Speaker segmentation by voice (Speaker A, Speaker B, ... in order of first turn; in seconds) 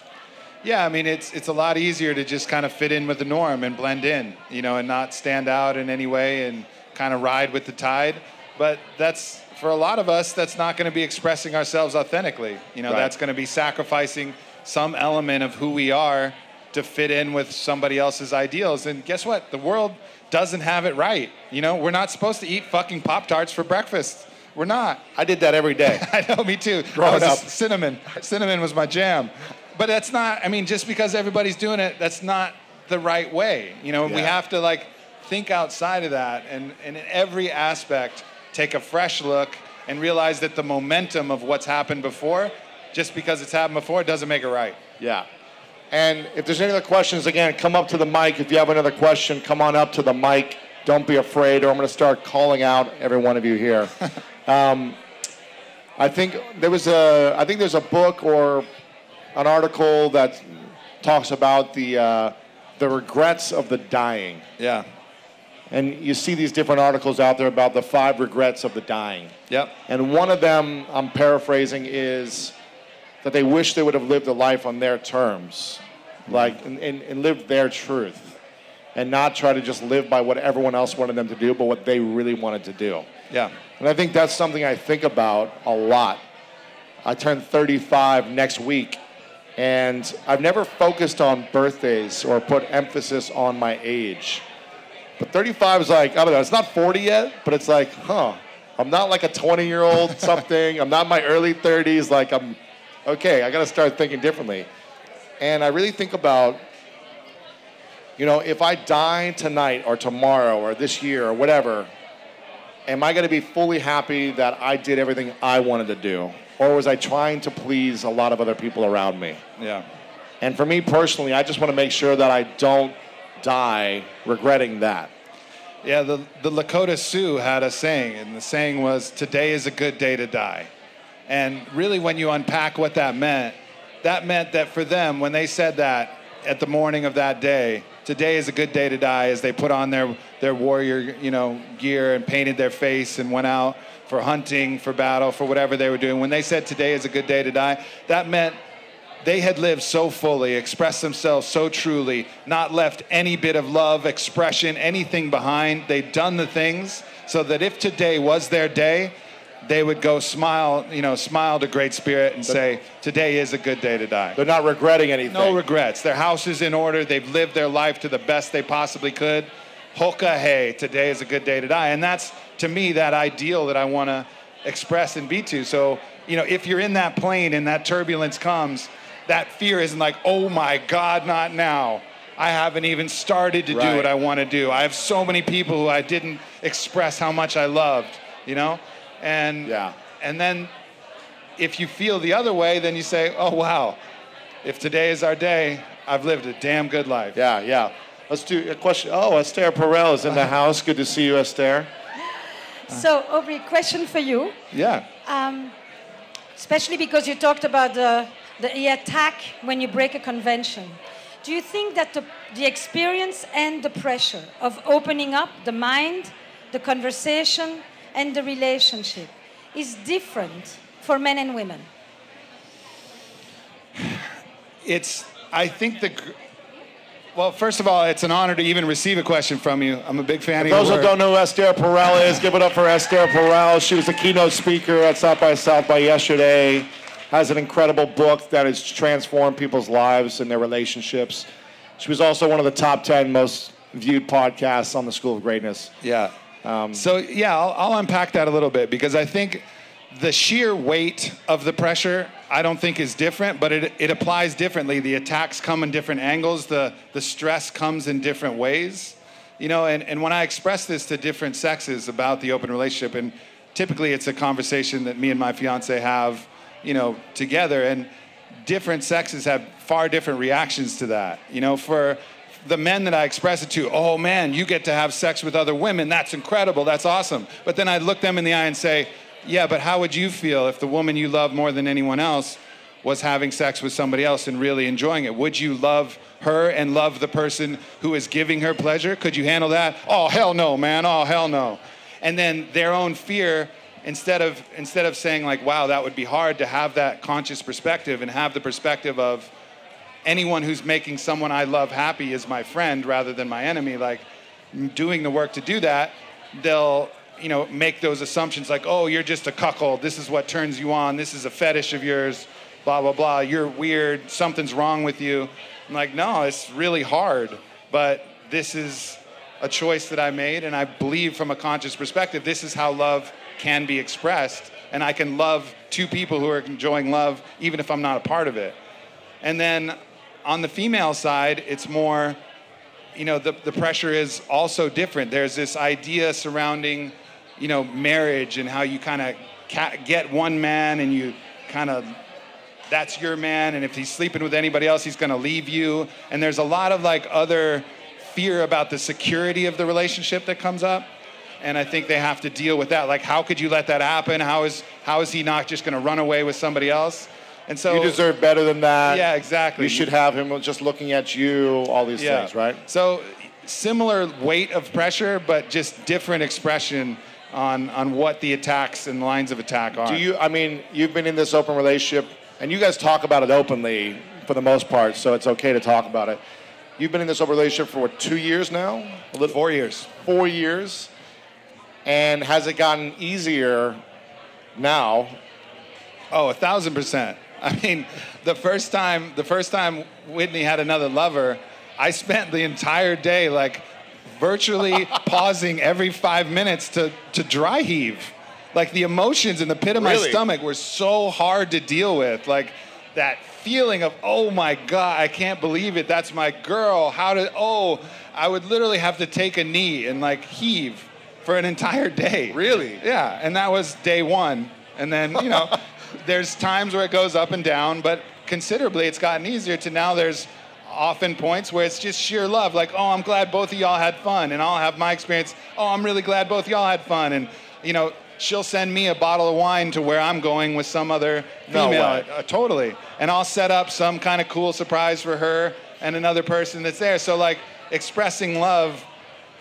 Speaker A: 0.6-25.0, 25.9-44.8, 64.6-64.9, 83.3-83.6, 119.6-119.9, 125.8-130.7, 131.3-148.6, 149.2-164.4, 165.3-190.7, 191.6-194.0, 194.6-197.4, 204.7-205.1, 224.8-226.4, 227.3-231.1, 246.0-246.3, 246.9-268.1, 268.6-299.5, 300.2-328.8, 329.4-332.4, 333.1-342.2, 342.9-351.1, 351.6-358.2, 359.1-360.1, 362.2-370.2, 379.4-380.1, 386.3-439.1
Speaker B: 12.9-13.1, 25.1-26.1, 26.9-27.5, 34.0-34.3, 45.0-45.3, 45.9-53.9, 54.5-55.0, 56.0-58.7, 59.4-64.5, 65.7-69.3, 69.9-72.6, 73.2-78.4, 79.0-83.1, 83.8-86.2, 87.0-89.0, 89.6-94.5, 95.2-104.7, 105.4-106.7, 108.2-111.9, 112.9-119.4, 120.4-125.1, 164.4-165.6, 183.7-184.1, 189.7-189.9, 197.3-201.9, 230.6-241.5, 242.0-245.9, 246.6-247.0, 357.9-362.8, 370.0-376.4, 377.0-379.5, 380.2-381.1, 382.1-384.0, 384.8-385.4, 399.9-400.4, 412.5-413.0, 431.7-432.3
Speaker C: 202.9-204.6, 205.2-205.8, 206.6-221.9